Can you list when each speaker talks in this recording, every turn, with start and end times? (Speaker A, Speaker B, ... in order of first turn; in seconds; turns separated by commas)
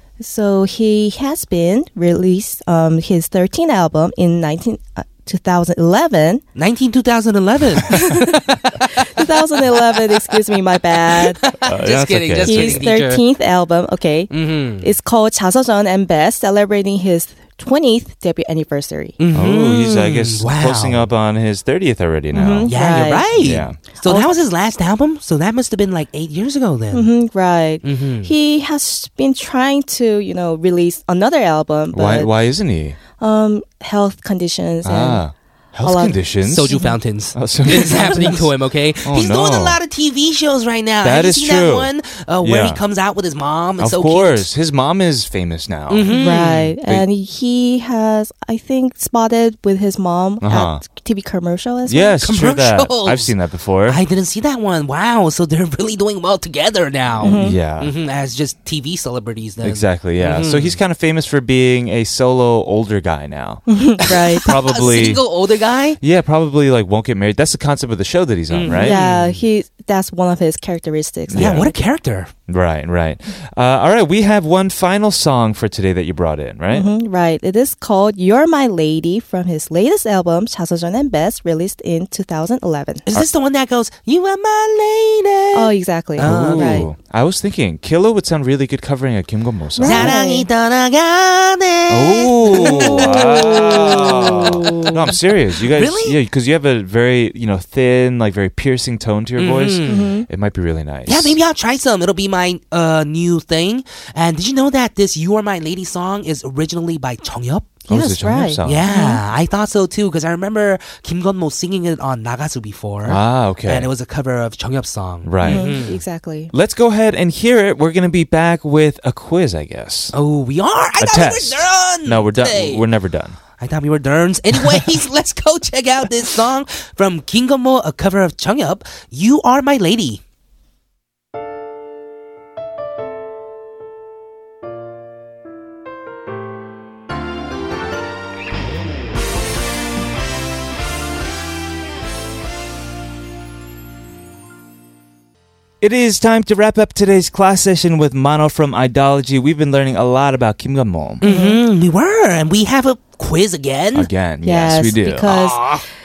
Speaker A: 0.2-6.4, Speaker B: 6.6-10.3, Speaker A: 7.9-8.4, Speaker A: 8.9-11.4, Speaker B: 11.2-13.2, Speaker C: 11.6-12.8, Speaker A: 12.4-19.1, Speaker B: 14.3-14.9, Speaker B: 19.2-21.1, Speaker C: 19.3-22.7, Speaker A: 22.3-23.3, Speaker B: 22.7-27.1, Speaker C: 23.4-23.8, Speaker A: 24.0-24.3, Speaker A: 26.9-32.3, Speaker B: 27.8-28.3, Speaker C: 31.9-33.0, Speaker A: 33.2-35.2, Speaker C: 34.8-38.5, Speaker A: 35.8-36.2, Speaker B: 36.5-44.5, Speaker A: 36.7-37.0, Speaker C: 39.0-39.8, Speaker C: 41.0-42.8, Speaker C: 43.8-47.1, Speaker B: 45.9-46.7, Speaker A: 46.1-52.2, Speaker C: 50.4-50.8, Speaker C: 51.9-54.0, Speaker B: 52.2-53.3, Speaker B: 53.9-60.8, Speaker A: 57.2-57.6, Speaker C: 57.2-57.9, Speaker C: 59.6-65.2, Speaker A: 63.7-64.5, Speaker B: 64.0-66.0, Speaker C: 66.0-69.0, Speaker B: 68.5-69.4, Speaker A: 68.7-71.8, Speaker C: 71.3-71.7, Speaker B: 71.3-72.3, Speaker C: 72.5-76.9, Speaker A: 76.7-83.0, Speaker B: 83.1-86.8, Speaker A: 85.5-86.9, Speaker C: 86.2-90.2, Speaker A: 89.8-90.5, Speaker B: 89.8-95.1, Speaker C: 91.9-101.4, Speaker A: 92.6-95.0, Speaker B: 95.6-96.2, Speaker B: 99.4-100.1, Speaker A: 99.9-100.3, Speaker B: 101.1-107.9, Speaker C: 107.9-108.9, Speaker A: 107.9-109.2, Speaker B: 108.7-116.0, Speaker C: 113.0-113.9, Speaker C: 115.2-115.9, Speaker A: 115.4-116.5, Speaker C: 116.5-120.1, Speaker B: 120.1-122.8, Speaker C: 121.0-123.4, Speaker B: 123.6-130.2, Speaker C: 145.8-151.2, Speaker B: 151.2-154.1, Speaker A: 151.2-151.6, Speaker C: 153.9-155.3, Speaker A: 154.4-155.8, Speaker B: 155.3-155.8